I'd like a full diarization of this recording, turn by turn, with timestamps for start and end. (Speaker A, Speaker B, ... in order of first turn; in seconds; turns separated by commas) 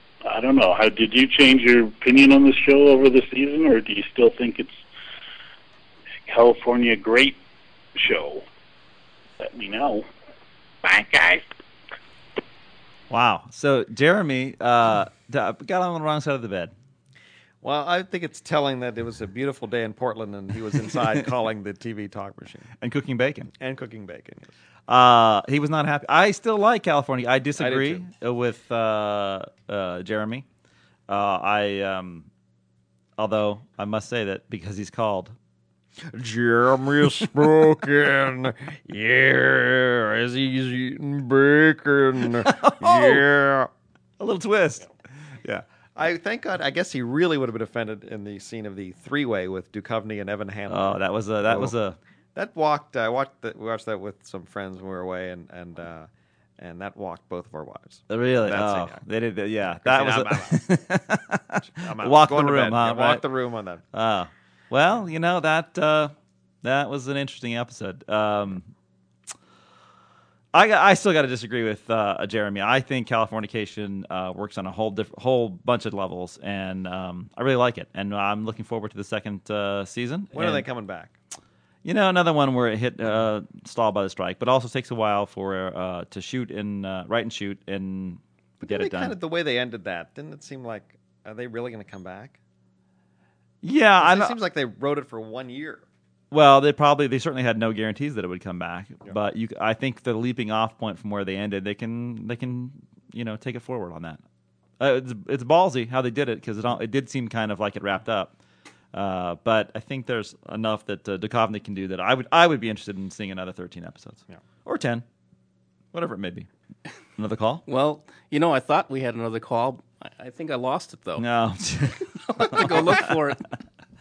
Speaker A: 0.2-4.8, Speaker A: 6.3-7.4, Speaker A: 8.0-8.4, Speaker A: 9.4-10.1, Speaker A: 10.8-11.4, Speaker B: 13.1-16.7, Speaker C: 17.6-22.7, Speaker B: 22.8-23.5, Speaker C: 23.6-24.5, Speaker B: 24.9-30.4, Speaker C: 27.6-28.0, Speaker B: 31.1-32.3, Speaker B: 33.2-35.3, Speaker C: 36.1-43.7, Speaker B: 42.3-43.2, Speaker B: 44.2-44.9, Speaker C: 45.4-51.7, Speaker B: 50.7-52.0, Speaker C: 52.4-59.0, Speaker B: 58.1-63.3, Speaker C: 59.6-60.8, Speaker C: 61.6-63.8, Speaker B: 63.9-66.1, Speaker B: 66.6-68.7, Speaker B: 70.5-80.7, Speaker C: 80.3-81.1, Speaker B: 81.8-89.2, Speaker C: 88.6-92.4, Speaker B: 93.6-94.4, Speaker C: 94.0-95.8, Speaker B: 96.3-104.2, Speaker B: 104.8-108.3, Speaker B: 108.9-115.0, Speaker B: 115.9-116.5, Speaker B: 117.2-117.6, Speaker D: 117.7-121.2, Speaker B: 121.2-123.1, Speaker D: 122.3-123.5